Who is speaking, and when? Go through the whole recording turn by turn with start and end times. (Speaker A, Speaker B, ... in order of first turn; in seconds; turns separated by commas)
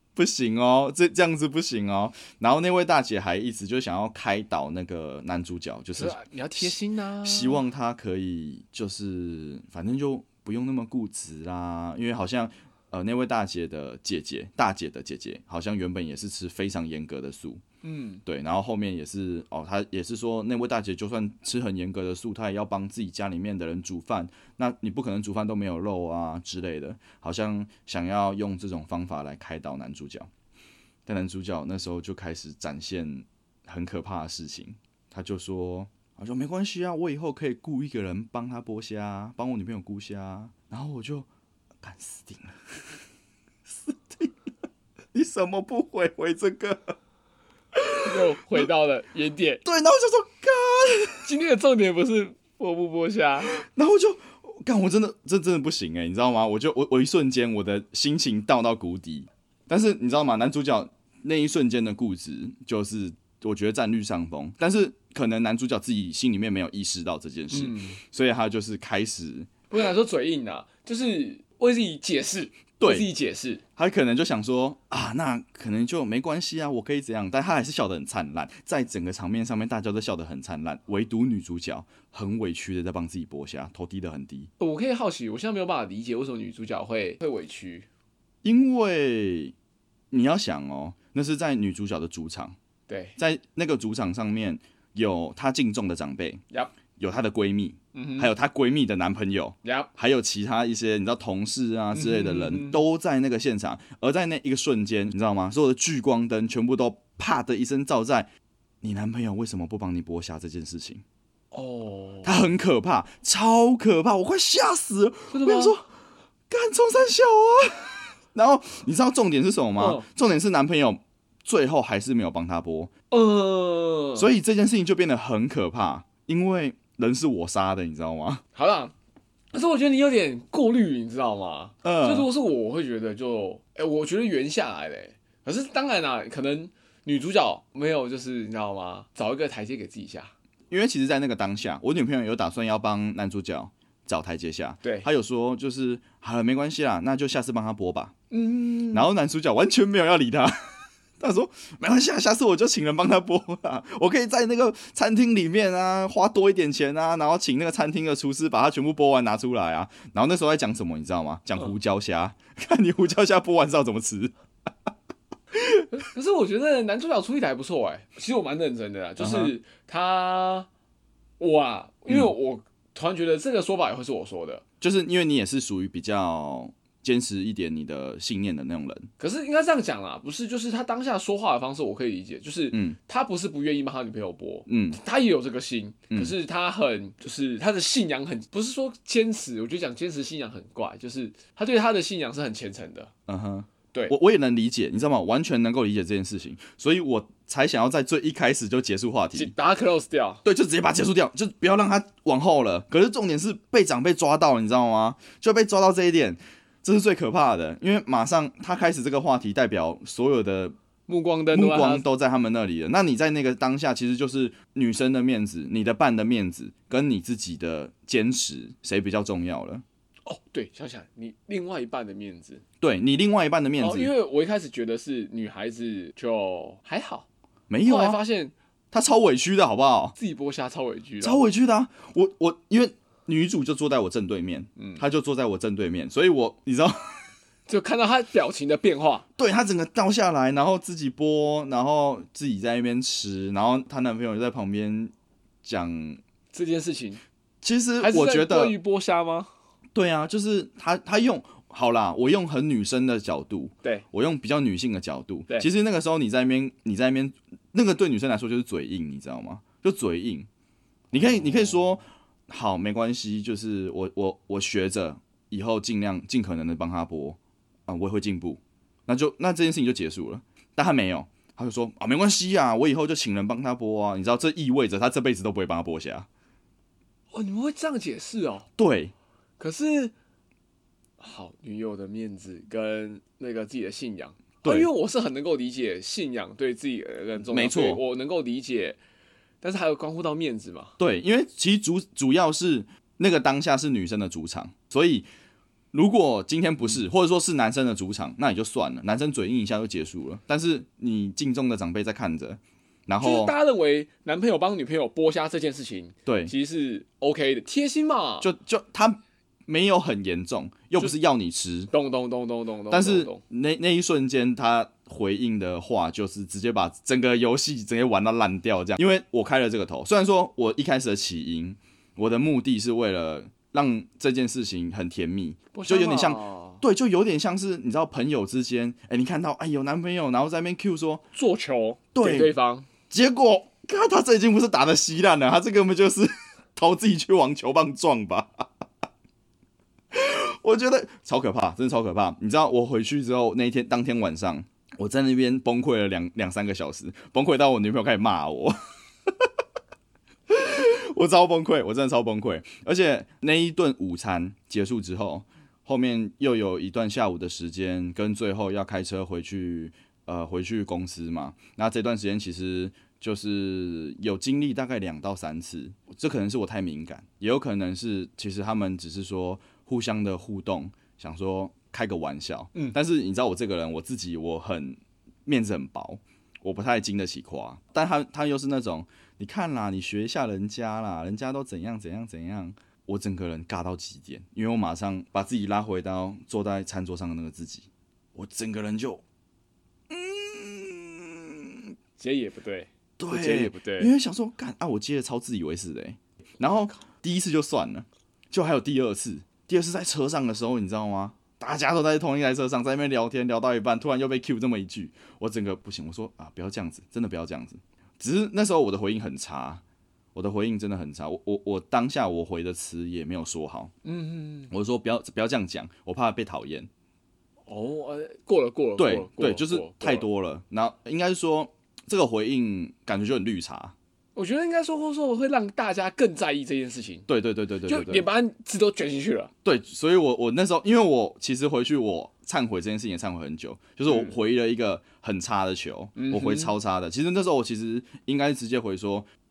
Speaker A: 0.1-17.6, Speaker B: 6.0-7.6, Speaker B: 17.8-18.2, Speaker A: 18.2-30.3, Speaker A: 31.1-41.3, Speaker A: 41.8-43.0, Speaker A: 43.7-44.4, Speaker A: 45.1-47.0, Speaker A: 47.8-48.7, Speaker B: 48.0-49.6, Speaker A: 49.6-51.3, Speaker B: 51.2-53.6, Speaker A: 53.5-69.6, Speaker B: 67.5-68.0, Speaker B: 69.7-73.6, Speaker A: 72.8-73.1, Speaker A: 73.8-84.5, Speaker B: 84.6-87.9, Speaker A: 88.4-89.5, Speaker A: 90.1-92.6, Speaker B: 92.9-93.2, Speaker A: 93.2-96.4, Speaker A: 97.0-108.3, Speaker B: 97.9-98.3, Speaker B: 99.6-99.9, Speaker B: 101.9-102.8, Speaker A: 108.8-111.0, Speaker B: 111.5-112.5, Speaker A: 112.2-115.9, Speaker B: 115.3-115.8, Speaker A: 116.5-122.9, Speaker B: 119.8-120.1, Speaker B: 123.1-124.3, Speaker A: 124.2-128.4, Speaker B: 128.6-128.9, Speaker B: 129.5-140.3, Speaker A: 131.8-132.3, Speaker A: 140.7-148.1, Speaker B: 144.8-145.1, Speaker B: 148.3-149.1, Speaker A: 148.9-164.3, Speaker A: 165.6-165.8, Speaker B: 165.9-170.7, Speaker A: 169.2-169.6, Speaker B: 171.4-174.6, Speaker A: 174.8-179.1, Speaker B: 179.2-193.1, Speaker A: 182.7-183.0, Speaker A: 184.7-185.0, Speaker A: 193.3-199.5, Speaker B: 199.3-200.4, Speaker A: 200.4-210.8, Speaker B: 211.1-212.1, Speaker A: 211.5-219.8, Speaker B: 220.3-222.6, Speaker A: 222.8-224.1, Speaker B: 223.8-227.3, Speaker A: 227.7-228.2, Speaker B: 227.8-228.5, Speaker A: 228.9-230.2, Speaker B: 230.2-231.4, Speaker A: 231.2-237.3, Speaker B: 234.8-235.0, Speaker B: 237.7-239.3, Speaker A: 239.4-245.1, Speaker A: 245.6-246.2, Speaker B: 246.5-247.2, Speaker A: 247.6-248.8, Speaker B: 248.0-249.5, Speaker A: 249.9-260.5, Speaker A: 261.1-276.3, Speaker B: 277.3-278.7, Speaker A: 278.8-279.1, Speaker B: 279.6-280.1, Speaker B: 281.2-289.0, Speaker A: 284.6-284.9, Speaker A: 287.5-288.0, Speaker B: 289.6-290.9, Speaker A: 291.0-295.3, Speaker A: 295.9-303.6, Speaker B: 303.2-308.5, Speaker A: 306.3-306.5, Speaker A: 308.4-311.9, Speaker B: 311.9-313.4, Speaker A: 312.9-331.3, Speaker B: 325.7-326.8, Speaker B: 331.3-332.9, Speaker A: 332.1-332.6, Speaker A: 333.1-338.7, Speaker A: 340.1-348.8, Speaker A: 350.5-389.2, Speaker A: 390.1-391.9, Speaker B: 392.2-394.1, Speaker A: 393.2-409.8, Speaker A: 410.4-413.9, Speaker B: 414.0-414.7, Speaker A: 414.7-416.9, Speaker B: 417.7-420.3, Speaker A: 419.0-423.9, Speaker B: 424.4-427.3, Speaker A: 427.3-428.3, Speaker B: 427.9-429.5, Speaker A: 429.6-439.3, Speaker B: 434.1-434.4, Speaker B: 436.2-436.8